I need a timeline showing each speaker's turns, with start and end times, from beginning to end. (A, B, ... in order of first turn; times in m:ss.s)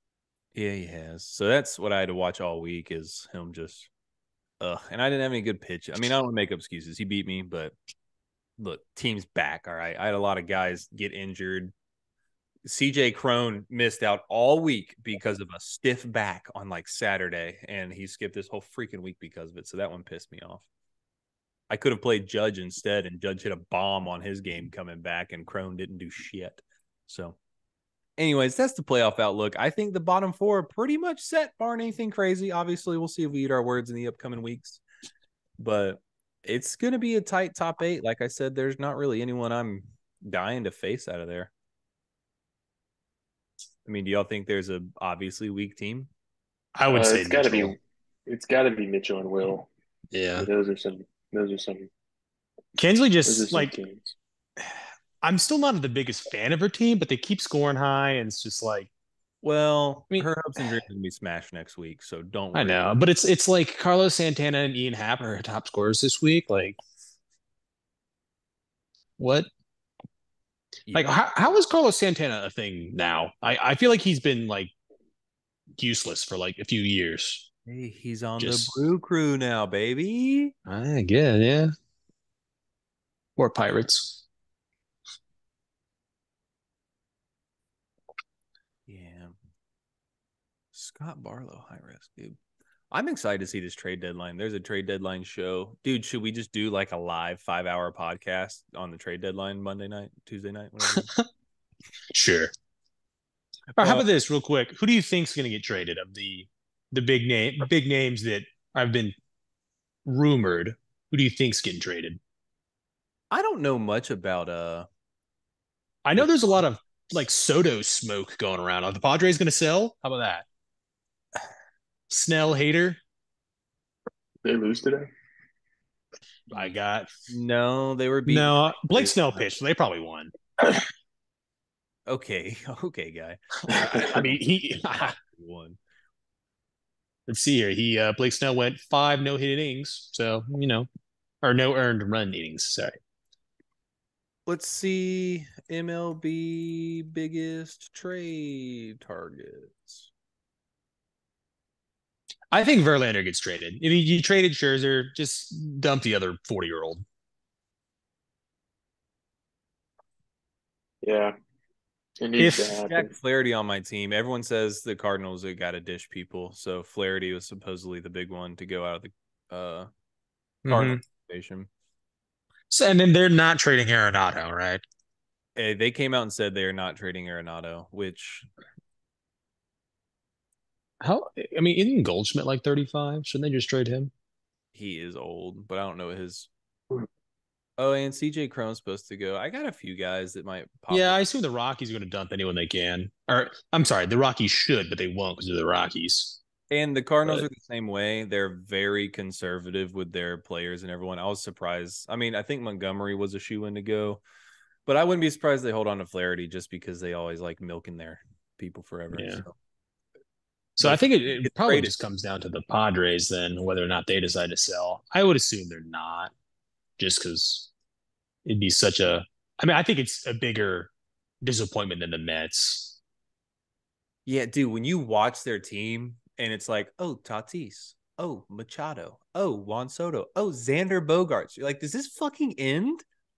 0:00.6-0:03.9 A
0:04.6-0:07.7 A
0:08.6-0:11.7 A
0:12.6-0:20.7 A
0:21.7-0:27.4 A
0:28.2-0:34.8 A
0:35.6-0:41.5 A
0:43.9-0:46.1 A
0:46.8-0:47.8 B
0:46.9-0:49.7 C
0:50.1-0:50.5 B
0:50.4-0:51.9 C
0:52.8-0:53.8 B
0:53.2-0:54.2 C
0:54.6-0:58.9 B
0:59.4-1:02.9 A
1:02.5-1:06.8 B
1:09.2-1:09.5 B
1:10.9-1:11.2 A
1:10.9-1:14.7 B
1:15.8-1:17.5 B
1:17.7-1:20.5 A
1:18.4-1:18.8 B
1:20.7-1:21.7 B
1:23.4-1:24.2 B
1:28.9-1:29.4 A
1:30.7-1:32.4 A
1:32.9-1:41.1 A
1:40.9-1:41.3 B
1:42.2-1:42.5 B
1:43.8-1:49.2 B
1:43.8-1:44.1 A
1:50.1-1:52.2 B
1:53.3-1:54.9 A
1:56.0-2:00.5 B
2:02.1-2:03.0 B
2:04.4-2:05.1 C
2:06.5-2:07.1 B
2:07.3-2:09.5 A
2:08.3-2:10.3 B
2:12.1-2:14.4 A
2:13.7-2:15.2 B
2:13.7-2:14.1 C
2:15.0-2:15.8 A
2:17.3-2:20.9 B
2:21.4-2:23.0 B
2:24.5-2:30.1 A
2:32.5-2:37.0 B
2:41.0-2:41.4 C
2:42.2-2:43.1 C
2:42.4-2:42.8 B
2:42.8-2:49.9 A
2:50.6-2:51.0 B
2:50.7-2:51.7 A
2:52.7-2:54.8 B
2:55.6-2:58.5 A
3:01.0-3:04.1 B
3:04.7-3:06.5 A
3:07.8-3:11.2 A
3:10.9-3:16.4 B
3:16.7-3:24.2 A
3:24.9-3:29.5 A
3:29.1-3:29.4 B
3:30.8-3:31.9 A
3:30.8-3:36.3 B
3:37.0-3:37.7 B
3:38.4-3:40.9 B
3:41.4-3:43.0 B
3:44.3-3:53.0 A